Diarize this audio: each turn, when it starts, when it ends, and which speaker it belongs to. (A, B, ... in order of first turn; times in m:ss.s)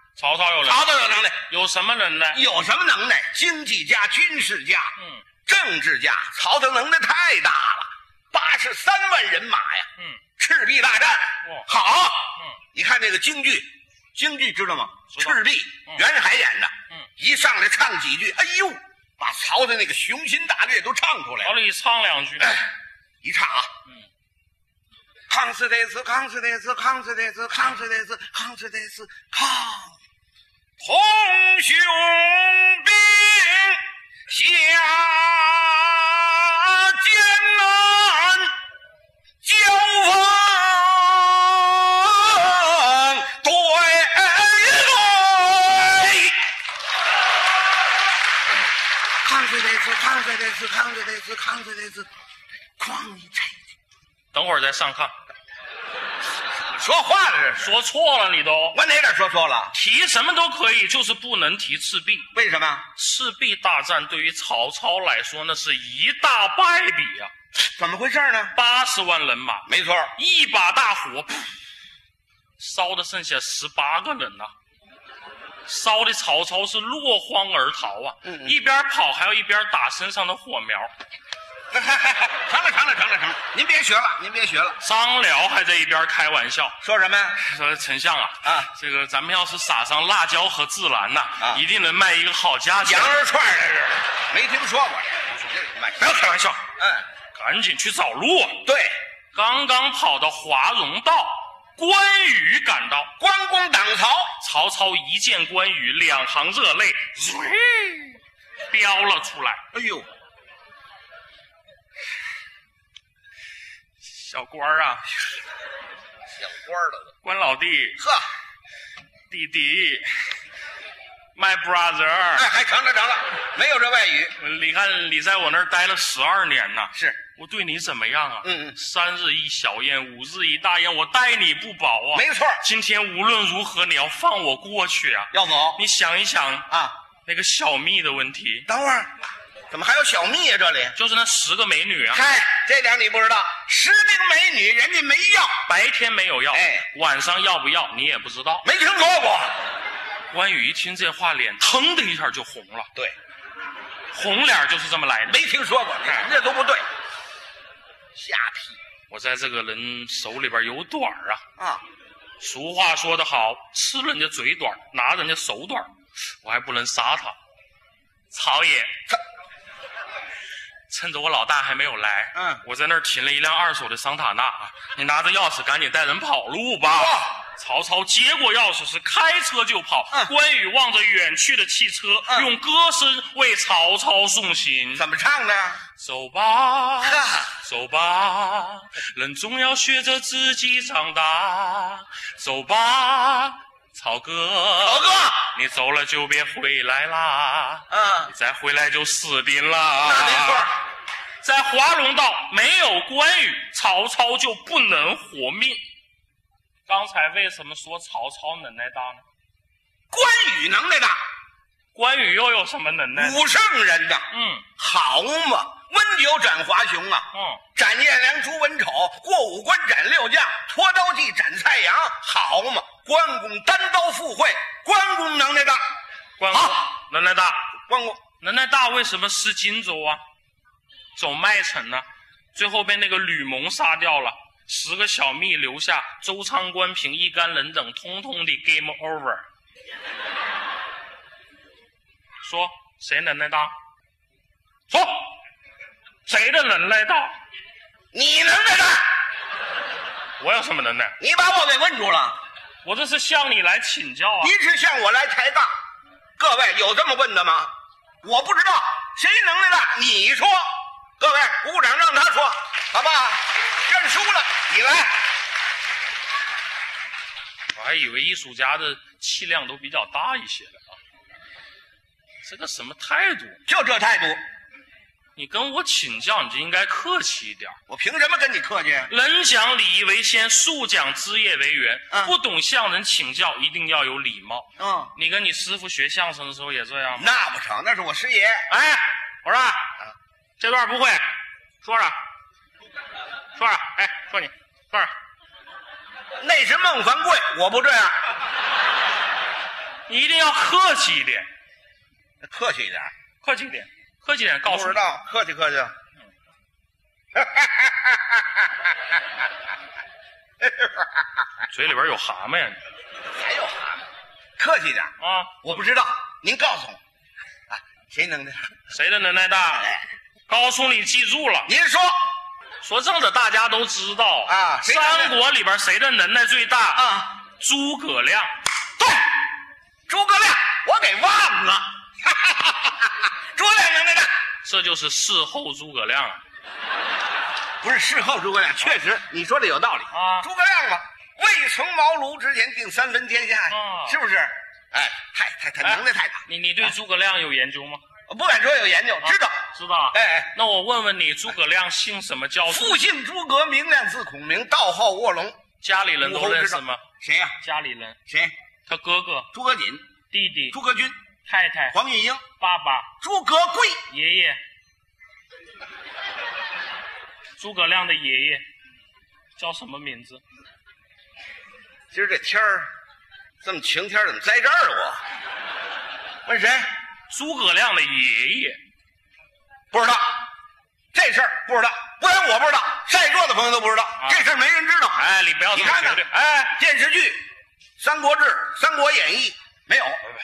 0:00.2-0:00.9 A
0:00.6-0:01.4 B
0:01.5-0:02.4 A
0:02.3-0:04.9 B
0:05.0-0:05.2 A
0:05.5-0:09.9 B
0:10.4-0:21.5 B
0:15.1-0:16.0 A
0:21.4-0:22.6 A
0:22.4-0:22.7 B
0:23.2-0:23.7 B
0:25.3-0:30.0 B
0:30.8-0:38.5 B
0:39.4-0:46.4 B
0:49.2-0:52.1 B
0:52.8-0:53.6 B
0:54.3-0:55.1 A
0:56.6-0:57.8 B
0:57.6-0:58.8 A
0:58.7-0:59.7 B
0:59.7-1:02.3 A
1:02.3-1:02.8 B
1:03.0-1:07.3 A
1:07.8-1:08.6 B
1:08.6-1:11.5 A
1:09.7-1:10.1 B
1:12.6-1:14.5 A
1:15.7-1:20.9 A
1:18.2-1:18.6 B
1:21.7-1:24.8 B
1:24.8-1:26.8 A
1:26.8-1:27.4 B
1:27.4-1:33.2 A
1:32.8-1:37.0 B
1:35.4-1:36.6 A
1:37.3-1:38.7 A
1:38.6-1:38.9 B
1:39.3-1:43.1 A
1:43.2-1:44.4 B
1:44.4-1:49.6 A
1:49.7-1:50.1 B
1:54.1-1:55.1 A
1:56.4-1:57.1 B
1:57.2-1:58.0 A
1:58.0-1:58.3 B
1:59.3-2:00.1 A
2:01.4-2:02.5 A
2:02.4-2:04.3 B
2:04.4-2:16.7 A
2:08.4-2:08.8 B
2:12.1-2:12.6 B
2:15.3-2:15.8 B
2:17.3-2:18.7 A
2:18.7-2:19.1 B
2:19.7-2:21.0 B
2:21.0-2:22.2 A
2:22.1-2:25.6 B
2:25.7-2:28.7 A
2:26.5-2:26.9 B
2:28.6-2:29.6 B
2:30.3-2:32.9 A
2:34.1-2:35.4 A
2:35.3-2:36.8 B
2:38.2-2:38.8 B
2:39.1-2:41.4 A
2:41.6-2:41.8 B
2:42.4-2:45.9 A
2:46.4-2:47.4 A
2:48.3-2:48.9 A
2:50.9-3:05.0 A
2:52.3-2:52.6 B
2:56.9-2:57.4 B
3:02.3-3:02.5 B
3:05.0-3:05.8 B
3:06.0-3:20.7 A
3:07.0-3:07.6 B
3:14.8-3:15.5 B
3:17.9-3:18.3 B
3:20.0-3:20.7 B
3:21.4-3:25.8 A
3:26.9-3:29.2 A
3:30.1-3:31.2 B
3:31.9-3:33.4 A
3:33.1-3:34.3 B
3:34.3-3:34.7 A
3:34.8-3:45.8 B
3:37.3-3:37.6 A
3:46.4-3:47.6 A
3:46.5-3:46.8 B
3:47.9-3:48.2 B
3:48.4-3:50.2 A
3:51.2-3:59.4 A
4:02.4-4:03.7 A
4:04.9-4:05.2 A
4:06.3-4:07.4 A
4:08.1-4:09.1 B
4:10.4-4:11.2 A
4:11.2-4:12.4 B
4:12.8-4:14.5 A
4:14.4-4:15.7 B
4:16.4-4:17.7 B
4:18.2-4:25.1 B
4:27.8-4:31.0 A
4:32.4-4:33.6 A
4:33.7-4:34.4 B
4:35.4-4:37.8 A
4:37.9-4:39.1 B
4:39.1-4:47.3 A
4:44.8-4:45.1 B
4:47.2-4:48.7 B
4:48.7-4:49.8 A
4:50.6-4:51.2 A
4:51.8-4:52.2 A
4:53.6-4:55.1 A
4:56.4-4:58.2 B
5:00.1-5:01.5 A
5:02.4-5:03.1 B
5:03.4-5:05.0 A
5:04.6-5:05.9 B
5:07.4-5:08.6 B
5:10.6-5:11.1 B
5:11.7-5:12.8 A
5:13.3-5:14.0 B
5:14.6-5:17.0 B
5:15.2-5:15.8 A
5:17.7-5:18.7 B
5:18.9-5:19.9 A
5:20.5-5:21.7 A
5:21.7-5:22.2 B
5:22.8-5:27.1 A
5:24.4-5:25.4 B
5:27.0-5:27.3 B
5:27.6-5:28.5 A
5:30.1-5:34.3 B
5:34.6-5:36.4 A
5:37.8-5:46.4 B
5:40.1-5:40.5 A
5:43.7-5:44.2 A
5:45.8-5:48.0 A
5:48.3-5:49.6 B
5:49.2-5:53.0 A
5:50.1-5:50.5 B
5:52.6-5:55.6 B
5:55.8-5:57.0 A
5:56.2-5:57.6 B
5:57.6-5:58.2 A
5:58.9-5:59.5 A
5:59.5-6:00.0 B
6:00.3-6:00.8 A
6:00.7-6:01.2 B
6:01.4-6:02.0 A
6:01.9-6:02.4 B
6:02.6-6:03.1 A
6:03.2-6:04.0 B
6:04.1-6:04.6 A
6:07.6-6:08.6 A
6:09.6-6:10.4 A
6:12.1-6:12.9 B
6:13.6-6:15.2 B
6:16.5-6:16.9 B
6:17.3-6:18.8 A
6:19.9-6:20.4 B
6:21.1-6:27.4 B
6:25.2-6:26.4 A
6:28.0-6:30.2 B